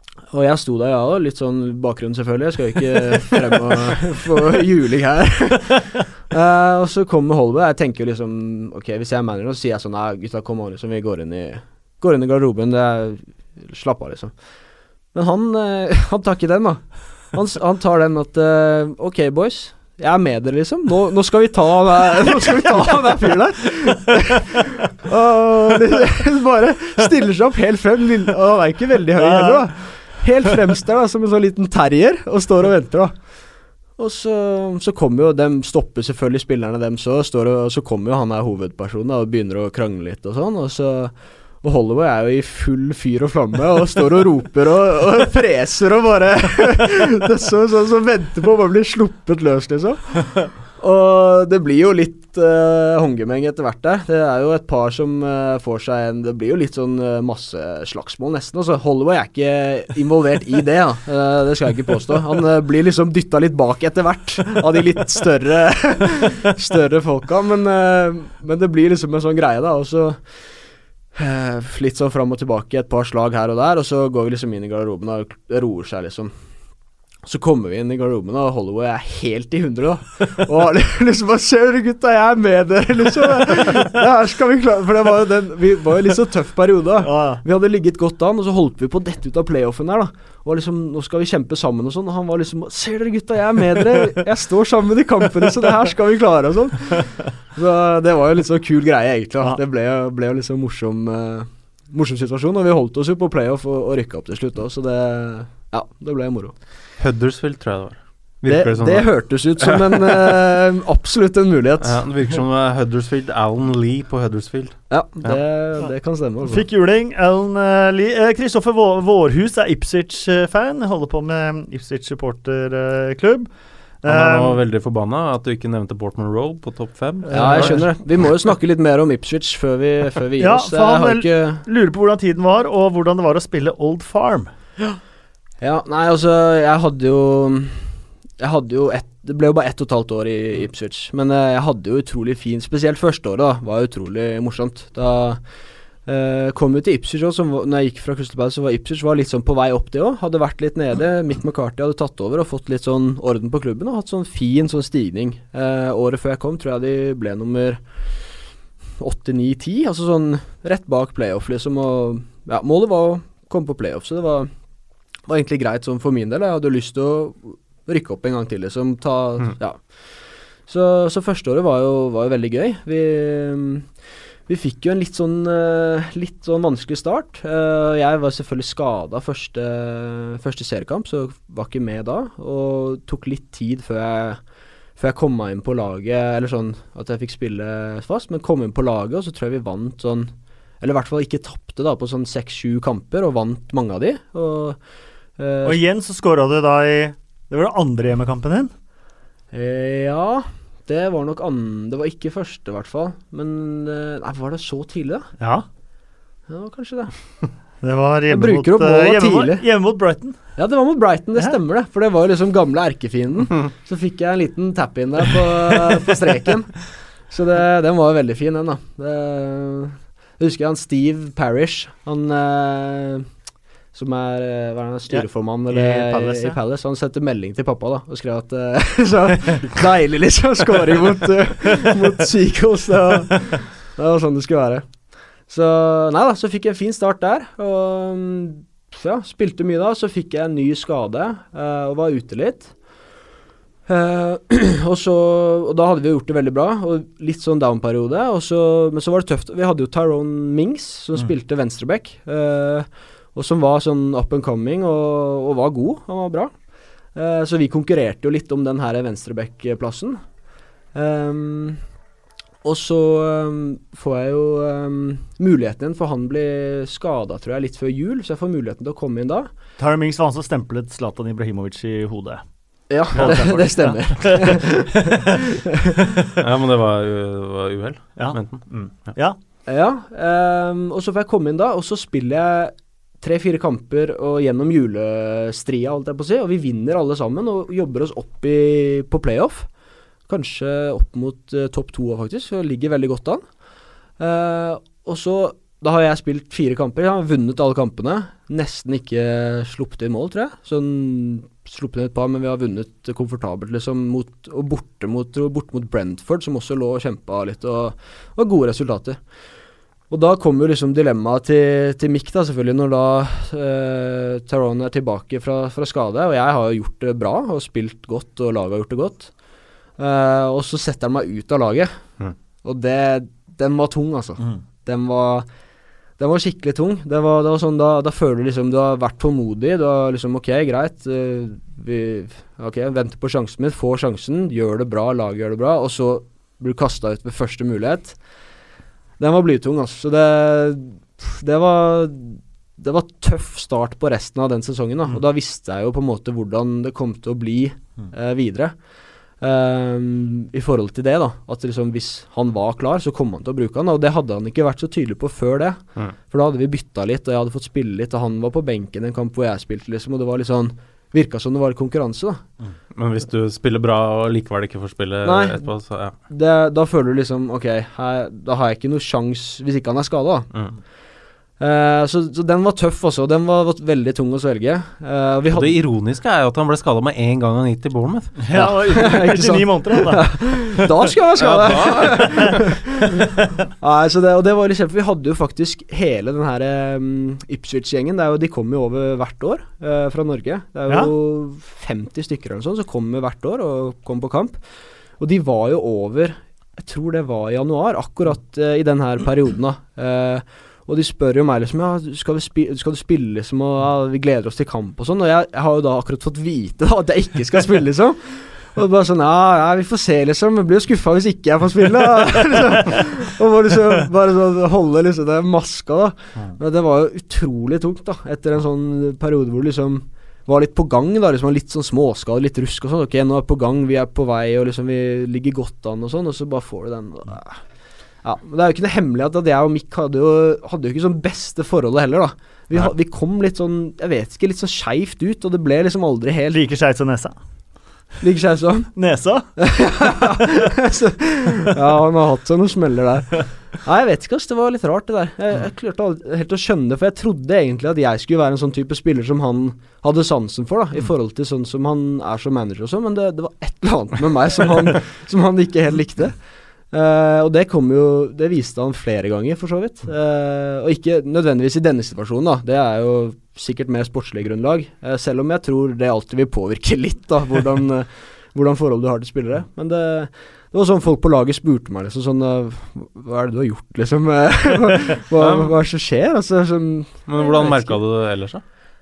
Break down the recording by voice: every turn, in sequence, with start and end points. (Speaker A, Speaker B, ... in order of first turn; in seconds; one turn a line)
Speaker A: 0.3-14.3
Speaker A: 15.1-33.3
Speaker B: 29.2-29.8
Speaker A: 34.0-70.5
Speaker A: 71.1-76.3
Speaker A: 77.2-106.5
Speaker B: 87.0-87.4
Speaker C: 107.0-110.4
Speaker A: 108.5-112.1
Speaker C: 111.8-115.4
Speaker A: 114.9-116.7
Speaker B: 116.4-123.5
Speaker B: 124.0-124.6
Speaker C: 124.1-127.9
Speaker B: 127.3-127.9
Speaker A: 127.3-131.6
Speaker B: 130.4-134.5
Speaker A: 135.6-145.4
Speaker A: 146.1-158.1
Speaker A: 159.0-164.5
Speaker A: 165.2-173.9
Speaker A: 174.5-184.4
Speaker A: 185.0-194.8
Speaker A: 195.4-195.8
Speaker B: 195.7-198.7
Speaker A: 199.5-205.3
Speaker B: 205.4-205.7
Speaker A: 206.5-207.1
Speaker B: 207.8-210.4
Speaker A: 208.3-209.7
Speaker A: 210.6-223.3
Speaker A: 223.9-242.8
Speaker B: 225.1-226.6
Speaker A: 243.9-256.5
Speaker A: 257.1-260.2
Speaker A: 260.9-261.8
Speaker A: 262.6-269.5
Speaker B: 269.8-272.5
Speaker A: 272.9-275.9
Speaker B: 273.1-275.4
Speaker C: 273.2-273.4
Speaker C: 276.4-279.1
Speaker B: 278.2-279.4
Speaker A: 279.7-289.7
Speaker A: 290.3-293.4
Speaker A: 294.2-309.2
Speaker A: 310.1-319.3
Speaker A: 320.0-325.5
Speaker A: 326.2-338.2
Speaker A: 339.2-348.8
Speaker A: 349.4-362.5
Speaker C: 362.9-366.2
Speaker A: 365.2-365.7
Speaker A: 366.3-370.6
Speaker A: 371.6-375.8
Speaker C: 375.5-378.8
Speaker B: 378.4-380.9
Speaker A: 378.6-394.6
Speaker C: 381.4-382.8
Speaker B: 382.1-382.5
Speaker B: 383.2-383.5
Speaker A: 395.2-427.7
Speaker A: 428.2-436.6
Speaker B: 436.5-437.4
Speaker A: 438.2-439.0
Speaker B: 439.0-439.5
Speaker A: 439.6-478.0
Speaker C: 475.4-475.8
Speaker C: 477.3-478.6